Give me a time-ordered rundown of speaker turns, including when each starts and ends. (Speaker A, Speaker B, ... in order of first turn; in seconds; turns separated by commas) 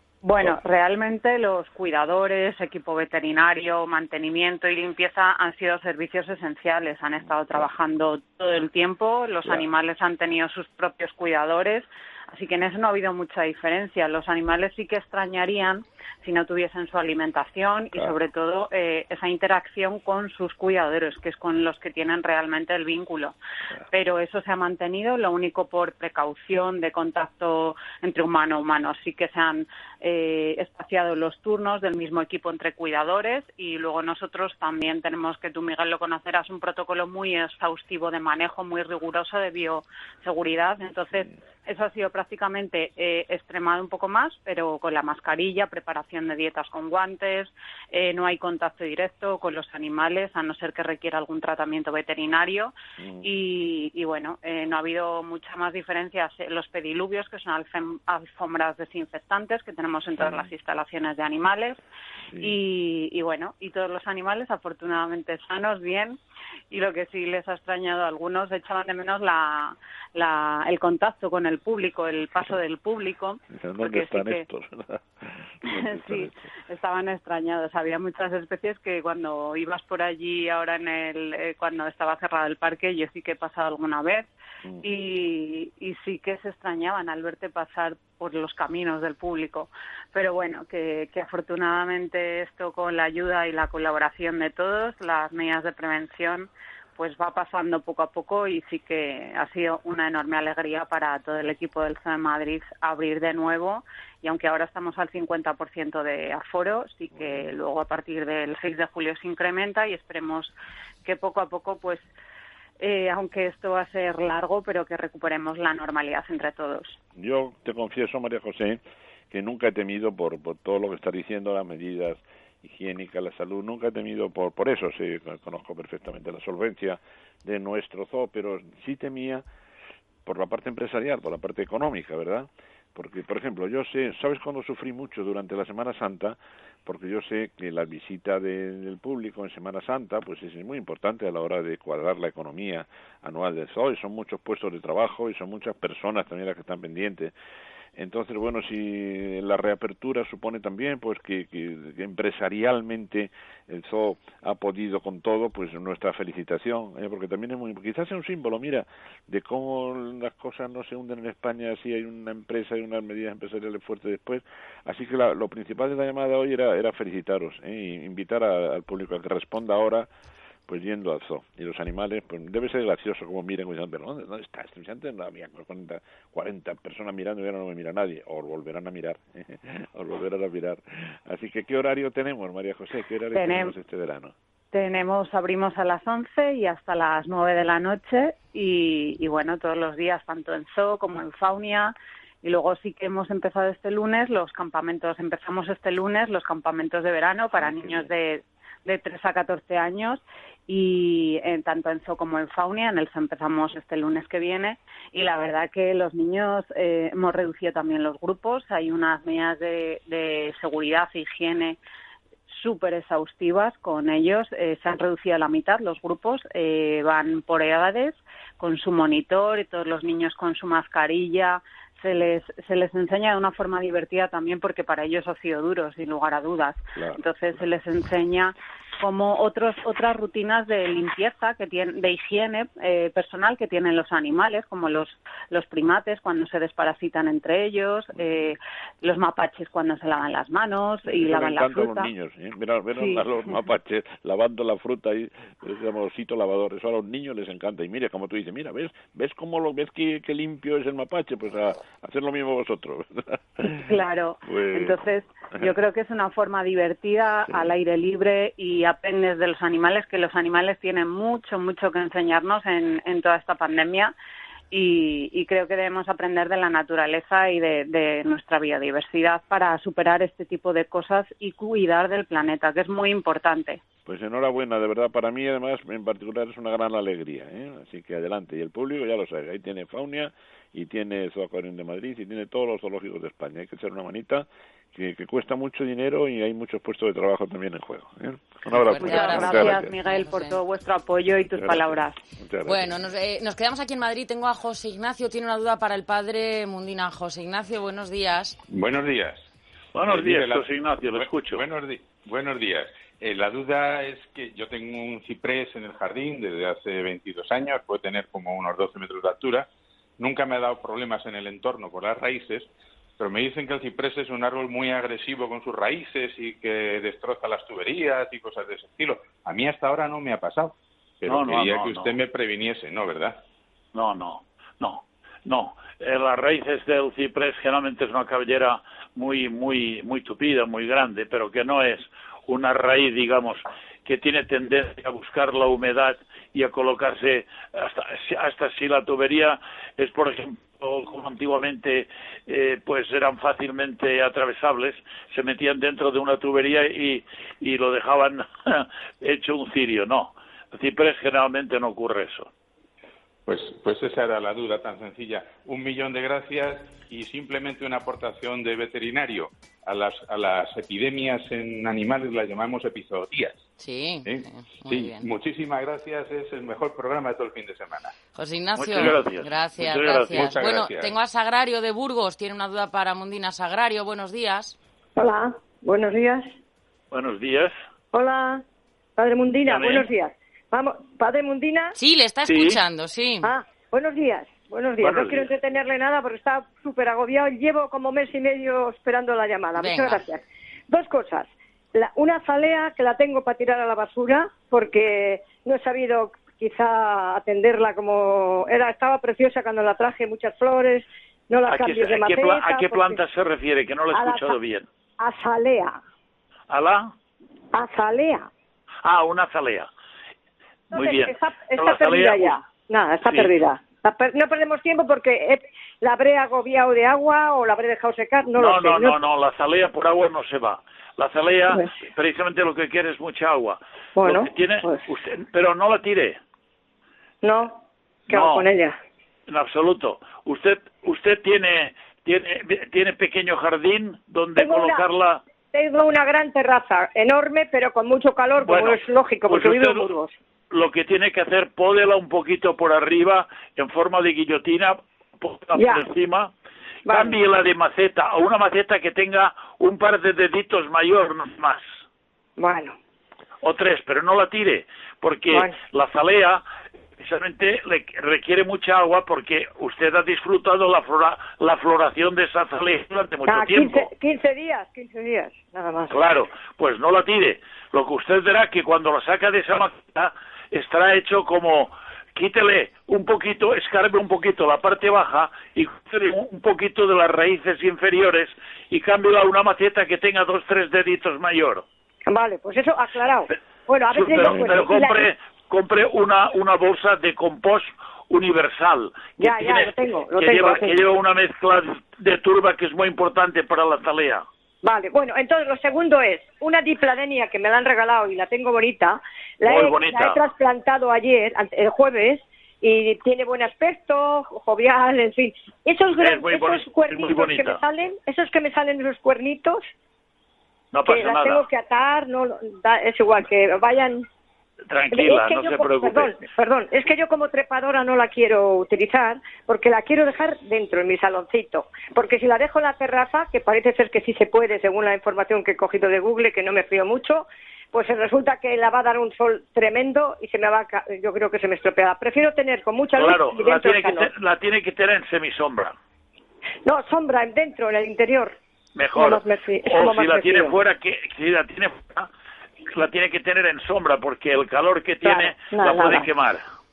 Speaker A: 0.2-23.4, Speaker A: 23.9-61.8, Speaker B: 53.0-53.3, Speaker B: 60.2-60.5, Speaker B: 62.3-62.6, Speaker A: 62.4-66.2, Speaker A: 66.7-74.4, Speaker B: 73.5-76.5, Speaker A: 75.7-84.3, Speaker B: 84.6-84.9, Speaker A: 84.8-112.1, Speaker B: 107.1-107.5, Speaker A: 112.8-117.0, Speaker B: 117.2-118.8, Speaker B: 119.3-129.4, Speaker B: 130.2-147.3, Speaker B: 147.9-170.1, Speaker B: 170.7-184.3, Speaker A: 183.3-183.7, Speaker A: 184.7-211.8, Speaker B: 197.5-198.1, Speaker A: 212.5-242.1, Speaker B: 226.9-227.2, Speaker B: 238.2-238.5, Speaker B: 241.0-253.9, Speaker A: 242.9-243.3, Speaker A: 253.7-264.1, Speaker B: 254.5-255.0, Speaker B: 257.5-257.7, Speaker A: 264.7-273.8, Speaker B: 274.1-289.9, Speaker C: 288.7-290.6, Speaker A: 289.0-292.2, Speaker B: 291.5-292.9, Speaker C: 292.6-298.6, Speaker D: 298.7-299.4, Speaker E: 299.9-301.6, Speaker D: 300.0-309.7, Speaker D: 310.2-323.4, Speaker E: 321.3-322.1, Speaker E: 323.9-352.5, Speaker D: 353.4-363.6, Speaker C: 363.8-365.2, Speaker D: 364.2-368.1, Speaker C: 368.3-374.8, Speaker E: 368.8-370.3, Speaker D: 369.9-371.1, Speaker F: 375.2-376.5, Speaker E: 377.1-377.7, Speaker F: 378.1-378.6, Speaker F: 379.2-381.9, Speaker E: 379.6-380.1, Speaker C: 381.9-383.5, Speaker E: 382.5-382.8, Speaker F: 383.4-403.2, Speaker E: 385.0-385.5, Speaker C: 389.8-390.2, Speaker E: 401.6-404.9, Speaker F: 404.1-404.6, Speaker F: 405.2-406.0, Speaker E: 406.7-407.1, Speaker F: 407.7-408.5, Speaker E: 409.0-409.9, Speaker E: 410.9-412.6, Speaker F: 410.9-419.2, Speaker E: 413.2-413.5, Speaker E: 418.6-426.4, Speaker F: 424.2-425.0, Speaker F: 427.4-429.0, Speaker E: 428.3-428.7, Speaker E: 429.5-435.4, Speaker F: 434.6-435.1, Speaker F: 435.7-440.3, Speaker E: 438.6-440.1, Speaker E: 440.7-446.5, Speaker F: 445.8-446.1, Speaker F: 447.1-447.4, Speaker E: 447.1-451.8, Speaker F: 452.6-452.9, Speaker E: 453.6-456.6, Speaker F: 455.5-455.8, Speaker E: 457.2-464.1, Speaker F: 463.5-466.1, Speaker E: 466.1-481.8, Speaker F: 482.3-485.3, Speaker E: 484.1-494.4, Speaker F: 489.4-491.0, Speaker F: 494.8-509.8, Speaker E: 499.6-500.4, Speaker E: 506.1-507.8, Speaker E: 510.9-511.7, Speaker F: 511.0-514.3, Speaker E: 514.9-516.5, Speaker F: 515.1-534.3, Speaker E: 533.1-535.9, Speaker F: 536.8-538.6, Speaker E: 539.0-542.3, Speaker F: 539.1-540.8, Speaker E: 542.9-546.6, Speaker F: 545.2-546.3